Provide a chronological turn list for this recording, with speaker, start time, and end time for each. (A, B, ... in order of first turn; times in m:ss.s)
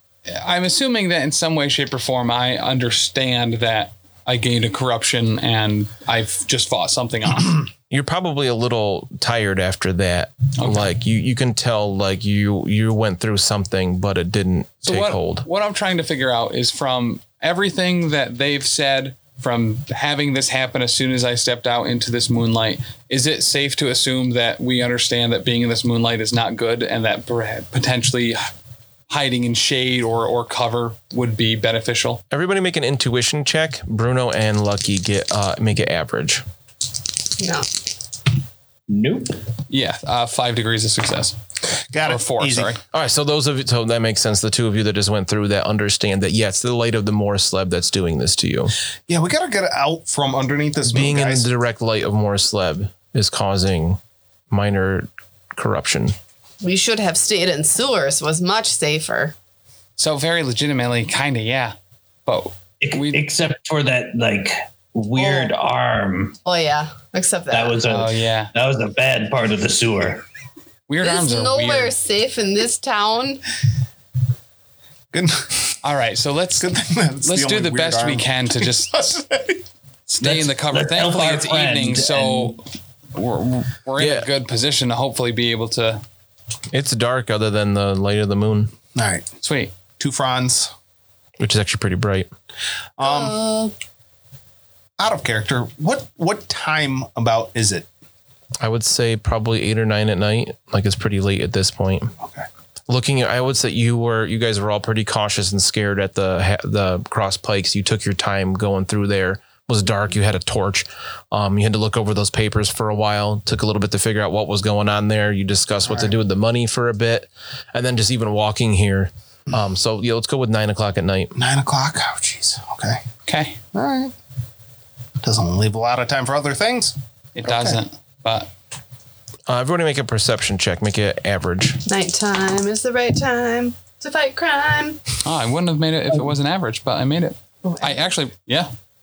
0:00.3-0:07.7 A
0:07.9-0:15.5 B
0:10.6-0:10.9 A
0:14.8-0:28.5 A
0:29.1-0:32.2 A
0:32.3-0:36.4 B
0:37.4-0:37.7 C
0:38.9-0:39.4 D
0:39.7-0:41.4 A
0:41.9-0:42.8 E
0:42.0-0:42.8 A
0:42.9-0:48.7 B
0:49.1-0:51.5 E
0:50.9-0:54.0 B
0:54.5-0:56.2 B
0:56.6-0:59.4 C
1:00.0-1:01.7 A
1:02.3-1:03.2 A
1:02.8-1:06.4 D
1:05.2-1:05.5 C
1:06.4-1:07.9 C
1:07.5-1:10.2 D
1:07.9-1:08.5 A
1:10.9-1:11.9 A
1:11.0-1:13.4 C
1:15.1-1:15.6 E
1:15.8-1:16.7 A
1:16.6-1:19.6 E
1:17.2-1:19.0 A
1:20.1-1:22.6 A
1:20.2-1:22.6 D
1:23.1-1:26.0 A
1:24.0-1:24.3 B
1:26.7-1:28.7 B
1:29.0-1:29.3 E
1:29.4-1:29.7 A
1:29.9-1:30.7 E
1:31.4-1:32.3 B
1:33.0-1:33.4 E
1:33.0-1:33.7 C
1:35.0-1:37.9 E
1:38.6-1:42.1 B
1:42.9-2:01.4 B
1:55.9-1:56.2 E
2:01.4-2:03.0 E
2:03.3-2:03.6 A
2:03.7-2:04.1 E
2:05.2-2:07.8 E
2:07.4-2:08.5 A
2:09.5-2:11.8 B
2:11.9-2:15.0 C
2:15.2-2:18.7 A
2:17.6-2:18.0 C